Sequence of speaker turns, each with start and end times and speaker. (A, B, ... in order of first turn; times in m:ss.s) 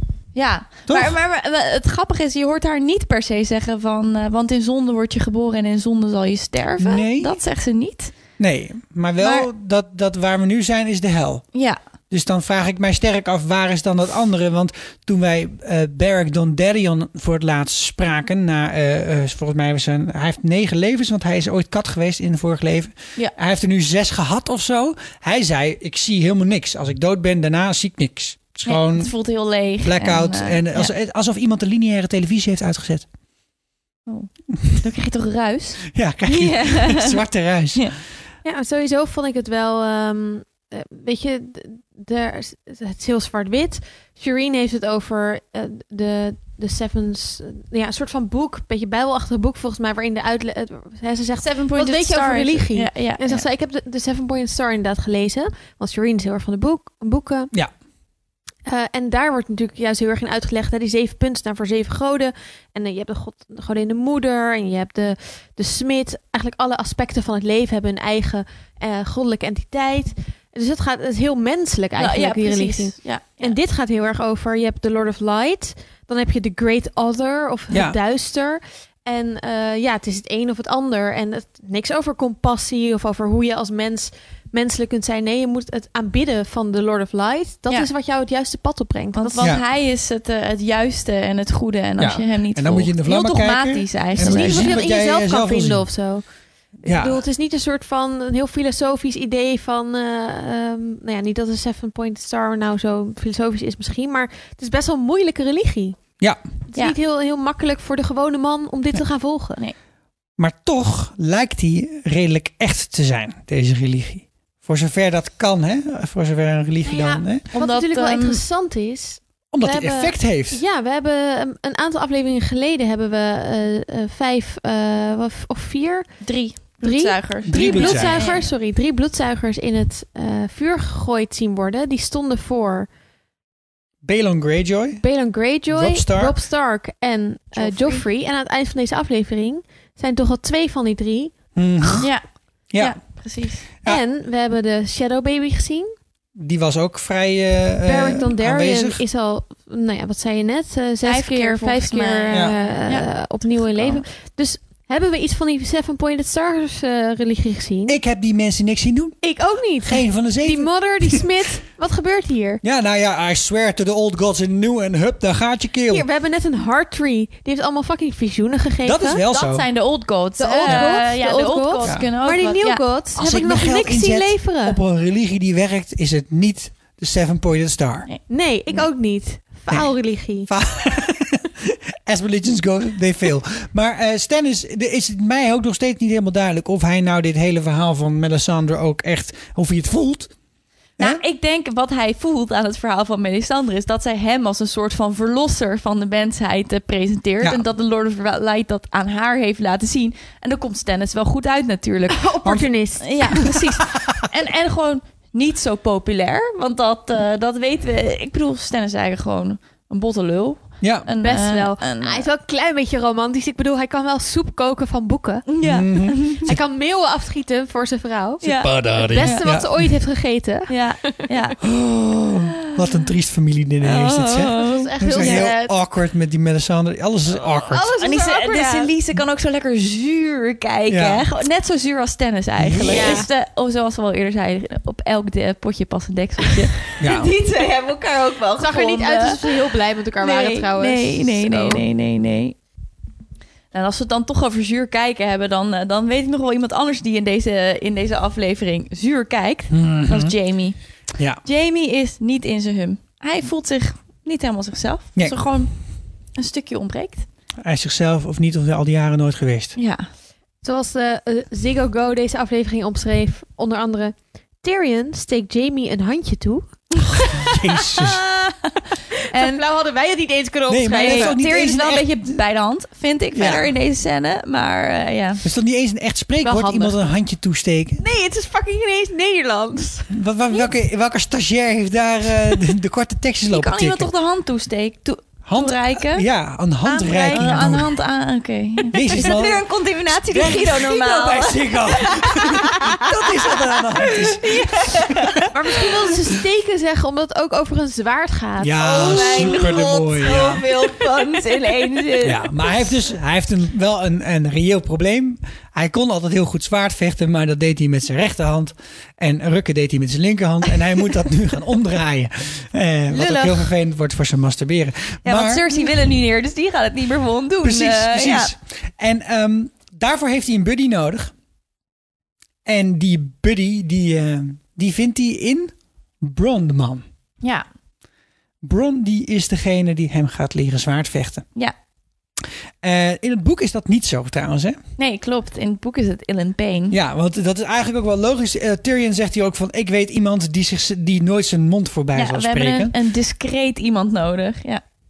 0:00.4-0:08.2 A
0:00.9-0:01.2 B
0:06.8-0:07.4 B
0:08.4-0:11.5 B
0:09.2-0:09.5 A
0:12.1-0:29.2 B
0:28.7-0:30.9 A
0:29.8-0:33.1 B
0:34.1-0:37.2 A
0:35.9-0:38.0 B
0:38.4-0:57.5 C
0:51.4-0:53.4 A
0:58.7-1:29.5 C
1:12.0-1:13.6 A
1:17.7-1:18.0 B
1:29.1-1:34.8 A
1:32.0-1:35.9 B
1:34.2-1:36.3 C
1:36.8-1:46.0 C
1:36.8-1:37.2 B
1:46.7-1:49.6 C
1:50.4-1:57.4 B
1:56.8-2:12.9 C
1:57.5-1:58.4 A
1:59.5-2:00.6 B
2:06.2-2:08.5 A
2:07.5-2:08.2 B
2:14.0-2:15.0 B
2:15.0-2:21.4 C
2:15.7-2:16.4 B
2:17.6-2:18.0 A
2:21.6-2:22.1 B
2:22.0-2:23.7 A
2:22.7-2:23.0 B
2:23.8-2:25.9 C
2:26.4-2:29.0 B
2:27.8-2:38.0 C
2:31.0-2:34.0 A
2:37.9-2:41.2 B
2:39.2-2:42.6 C
2:42.6-2:46.1 B
2:45.9-2:49.2 C
2:48.8-2:49.7 B
2:49.3-2:52.9 A
2:50.4-2:54.8 C
2:50.6-2:51.0 B
2:53.2-2:58.1 B
2:58.3-3:00.5 C
3:00.4-3:10.3 B
3:11.0-3:22.3 A
3:22.1-3:23.6 C
3:23.0-3:32.3 A
3:30.8-3:31.1 B
3:31.2-3:35.4 C
3:35.5-3:36.5 A
3:35.6-3:36.6 B
3:36.4-3:41.1 C
3:38.4-3:39.4 A
3:38.6-3:39.8 B
3:40.7-3:41.6 A
3:41.6-3:47.9 B
3:43.8-3:45.5 A
3:44.6-3:45.7 C
3:47.6-3:48.9 C
3:48.0-4:02.6 A
3:50.9-3:51.2 B
3:52.6-3:53.3 B
3:52.8-3:53.3 C
3:57.0-3:57.3 B
3:58.6-4:01.8 C
4:03.7-4:10.8 A
4:09.7-4:10.4 B
4:11.4-4:15.7 A
4:16.4-4:17.3 A
4:17.6-4:19.7 B
4:19.8-4:20.1 A
4:20.6-4:26.9 C
4:27.4-4:28.2 B
4:27.9-4:29.6 A
4:29.4-4:31.4 C
4:30.7-4:32.1 B
4:31.0-4:35.4 A
4:33.3-4:33.7 B
4:35.4-4:38.0 B
4:36.4-4:37.1 C
4:38.0-4:40.1 C
4:40.1-4:44.1 B
4:43.5-4:46.3 A
4:45.4-4:48.0 B
4:46.8-4:47.7 C
4:47.3-4:53.0 A
4:48.9-4:49.6 B
4:50.2-4:55.4 B
4:54.0-4:55.4 A
4:55.5-4:59.7 C
4:58.6-5:00.6 B
4:59.0-5:02.7 A
5:02.2-5:15.8 B
5:13.1-5:13.6 C
5:15.2-5:18.5 A
5:17.6-5:21.3 B
5:22.7-5:27.0 B
5:28.6-5:31.5 B
5:32.8-5:34.8 B
5:35.0-5:37.0 A
5:36.9-5:42.9 B
5:42.1-5:44.8 A